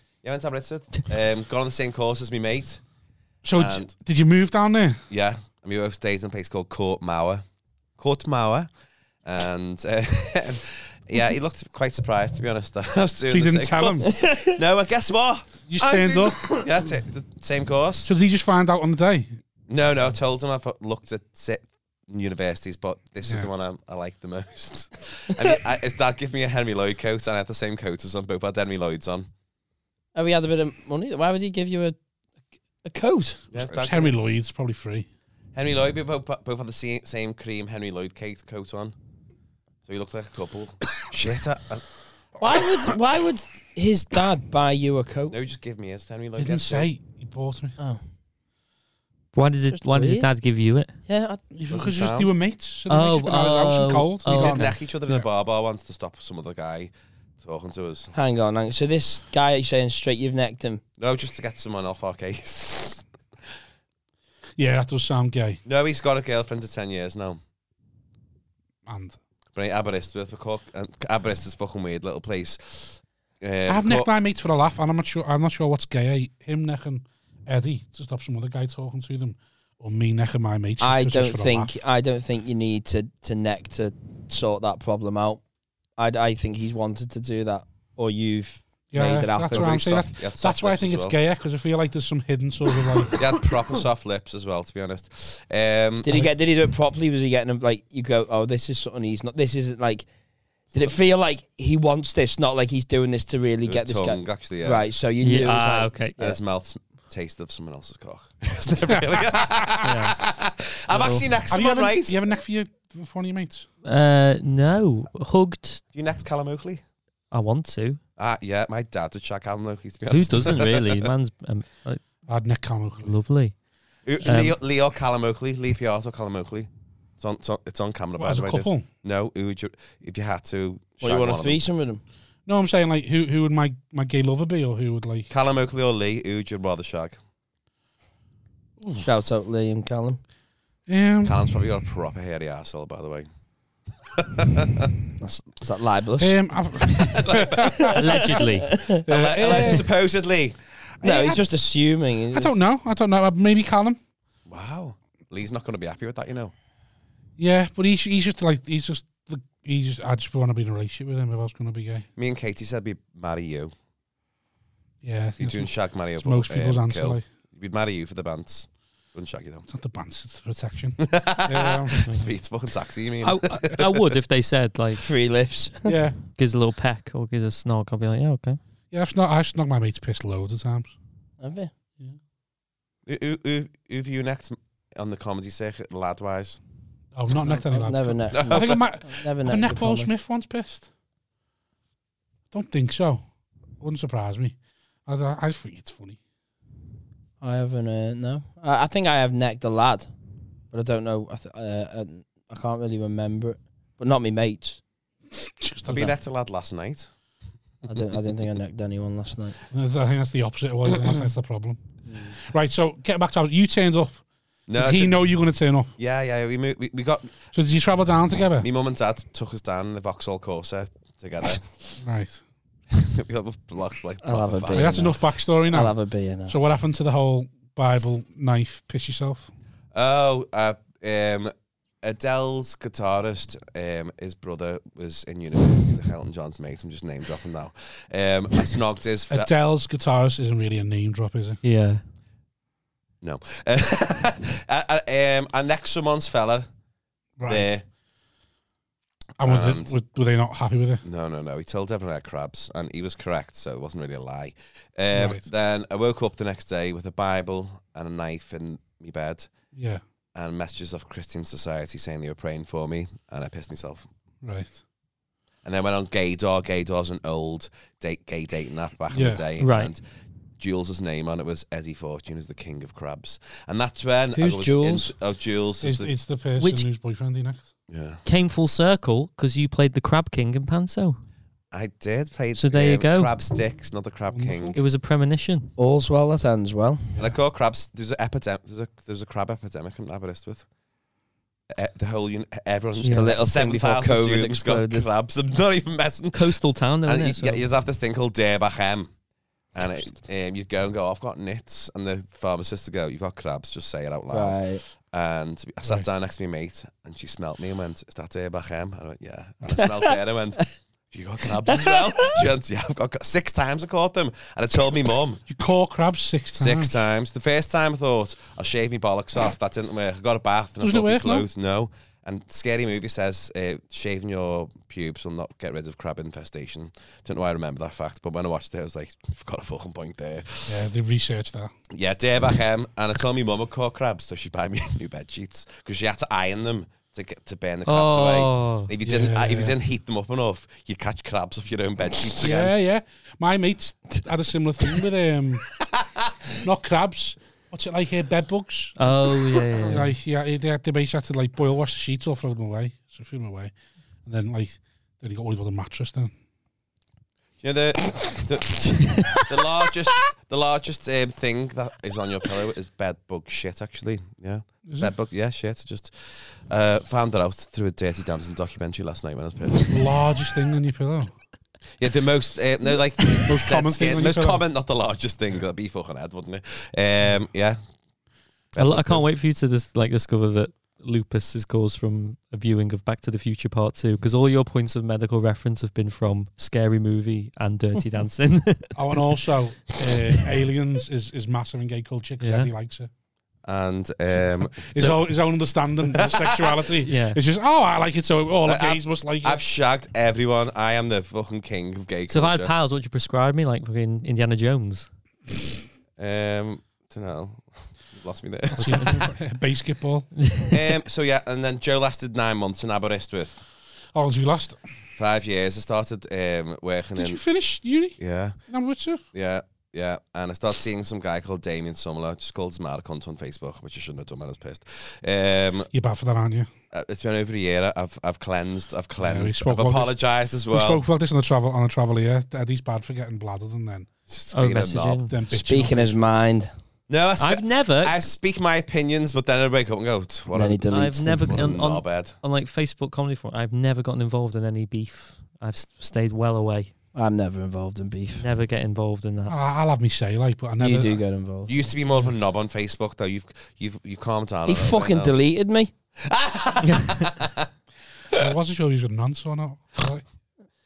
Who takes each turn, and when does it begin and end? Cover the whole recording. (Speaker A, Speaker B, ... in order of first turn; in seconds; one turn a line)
Speaker A: 0.2-2.8
Speaker B: 3.4-5.0
Speaker A: 3.5-3.9
Speaker A: 5.1-7.4
Speaker A: 8.0-8.7
Speaker A: 9.2-18.1
Speaker B: 13.3-14.2
Speaker C: 14.1-14.6
Speaker B: 15.7-16.5
Speaker B: 18.0-19.4
Speaker A: 19.7-29.3
Speaker C: 30.1-32.0
Speaker C: 32.8-33.4
Speaker A: 33.5-34.1
Speaker B: 33.5-35.1
Speaker A: 35.5-38.9
Speaker A: 39.9-41.9
Speaker C: 42.4-45.3
Speaker A: 45.3-46.9
Speaker B: 46.4-47.8
Speaker D: 49.3-50.9
Speaker C: 49.7-50.3
Speaker C: 51.1-51.4
Speaker B: 51.5-55.2
Speaker A: 51.7-52.3
Speaker D: 52.9-54.7
Speaker A: 54.3-58.1
Speaker C: 58.1-60.8
Speaker A: 61.0-63.0
Speaker B: 64.6-65.6
Speaker A: 65.6-67.4
Speaker B: 68.8-69.2
Speaker A: 69.5-74.1
Speaker B: 73.7-81.8
Speaker C: 80.8-85.4
Speaker C: 86.0-89.8
Speaker B: 88.9-93.2
Speaker A: 89.5-91.2
Speaker A: 93.1-96.2
Speaker C: 96.0-100.1
Speaker C: 100.7-106.3
Speaker A: 103.7-104.8
Speaker D: 105.2-106.2
Speaker A: 106.2-112.2
Speaker D: 109.8-110.2
Speaker D: 110.9-111.3
Speaker B: 111.5-113.7
Speaker D: 113.8-115.8
Speaker A: 115.9-116.8
Speaker D: 117.3-118.0
Speaker A: 118.2-121.1
Speaker D: 120.1-122.0
Speaker B: 122.3-123.1
Speaker D: 123.0-123.5
Speaker A: 124.0-131.6
Speaker D: 124.2-124.5
Speaker B: 128.2-128.8
Speaker C: 131.0-132.0
Speaker B: 132.4-135.3
Speaker A: 135.3-137.2
Speaker C: 139.0-140.2
Speaker B: 140.9-141.4
Speaker A: 141.2-143.3
Speaker A: 144.1-144.9
Speaker C: 145.2-146.4
Speaker B: 146.2-148.4
Speaker A: 147.0-147.9
Speaker D: 147.9-148.8
Speaker C: 148.4-149.8
Speaker B: 149.0-149.8
Speaker A: 149.0-150.6
Speaker B: 151.0-151.4
Speaker C: 151.0-152.5
Speaker B: 152.3-154.0
Speaker A: 154.5-156.5
Speaker B: 157.4-162.1
Speaker A: 162.2-163.7
Speaker B: 165.0-167.2
Speaker A: 165.4-169.7
Speaker B: 169.7-172.1
Speaker A: 171.0-174.1
Speaker D: 173.2-175.1
Speaker C: 175.0-175.9
Speaker B: 175.8-176.2
Speaker D: 176.3-178.6
Speaker B: 178.9-180.9
Speaker C: 181.4-181.7
Speaker A: 183.1-186.6
Speaker B: 187.1-190.9
Speaker C: 187.7-190.1
Speaker A: 188.3-188.9
Speaker B: 192.5-193.2
Speaker B: 193.8-194.5
Speaker B: 195.1-196.2
Speaker C: 197.4-200.1
Speaker C: 200.7-204.8
Speaker B: 205.3-206.2
Speaker A: 205.8-207.1
Speaker C: 207.9-209.6
Speaker B: 209.7-211.8
Speaker C: 212.1-212.3
Speaker B: 212.4-214.2
Speaker A: 214.7-215.2
Speaker B: 214.7-215.9
Speaker A: 216.0-217.3
Speaker B: 217.5-218.7
Speaker A: 218.6-221.7
Speaker B: 222.0-222.4
Speaker A: 222.9-225.0
Speaker C: 224.2-226.5
Speaker B: 224.7-225.9
Speaker B: 226.5-229.5
Speaker A: 229.9-239.5
Speaker B: 239.3-241.6
Speaker D: 241.6-242.0
Speaker A: 243.2-246.7
Speaker B: 247.4-247.7
Speaker A: 247.5-247.8
Speaker B: 249.4-251.0
Speaker A: 249.4-249.9
Speaker A: 251.0-259.5
Speaker B: 255.1-255.4
Speaker B: 259.7-260.0
Speaker A: 260.3-264.1
Speaker B: 264.4-264.8
Speaker A: 265.6-270.0
Speaker B: 269.1-269.4
Speaker D: 269.6-269.9
Speaker A: 270.6-276.1
Speaker C: 274.3-275.1
Speaker B: 275.8-277.7
Speaker D: 276.6-276.9
Speaker A: 277.9-278.2
Speaker D: 278.2-281.2
Speaker A: 281.7-284.8
Speaker D: 282.5-283.3
Speaker B: 284.3-284.8
Speaker D: 284.7-285.7
Speaker C: 285.8-287.1
Speaker A: 287.2-290.6
Speaker A: 291.7-299.1
Speaker D: 293.0-293.4
Speaker C: 293.1-295.1
Speaker D: 296.3-297.6
Speaker A: 299.7-315.4
Speaker C: 304.3-304.8
Speaker C: 311.7-311.9
Speaker B: 315.5-316.9
Speaker A: 316.6-330.8
Speaker B: 320.8-321.5
Speaker B: 330.7-331.7
Speaker A: 331.9-342.7
Speaker D: 337.9-338.9
Speaker B: 339.0-339.7
Speaker B: 342.4-345.7
Speaker B: 346.6-348.9
Speaker D: 349.0-350.1
Speaker B: 349.8-353.7
Speaker B: 354.2-356.3
Speaker A: 357.6-370.1
Speaker B: 364.9-365.1
Speaker B: 369.9-371.3
Speaker A: 372.0-377.8
Speaker B: 373.4-374.6
Speaker A: 378.7-379.2
Speaker D: 378.8-389.4
Speaker B: 388.9-393.1
Speaker D: 392.4-392.7
Speaker A: 393.6-395.2
Speaker B: 394.6-399.6
Speaker A: 396.0-396.8
Speaker D: 397.0-397.4
Speaker A: 398.6-402.7
Speaker D: 402.3-405.1
Speaker A: 406.2-409.3
Speaker D: 408.8-409.1
Speaker B: 408.8-410.4
Speaker D: 410.4-410.8
Speaker A: 410.7-413.6
Speaker B: 414.1-414.8
Speaker A: 415.2-417.4
Speaker B: 417.2-419.2
Speaker A: 418.2-418.6
Speaker A: 419.3-425.9
Speaker B: 425.9-426.7
Speaker A: 426.9-431.0
Speaker B: 429.2-430.1
Speaker B: 430.7-434.1
Speaker A: 434.3-435.3
Speaker D: 434.5-435.3
Speaker B: 435.3-436.2
Speaker C: 435.5-436.7
Speaker A: 437.1-442.3
Speaker D: 437.4-438.2
Speaker C: 440.5-441.5
Speaker D: 440.9-446.9
Speaker C: 447.1-448.4
Speaker D: 448.4-449.6
Speaker B: 449.5-451.2
Speaker C: 450.8-451.8
Speaker A: 451.7-455.3
Speaker C: 454.7-455.9
Speaker A: 456.2-457.7
Speaker D: 456.8-457.3
Speaker B: 458.3-460.2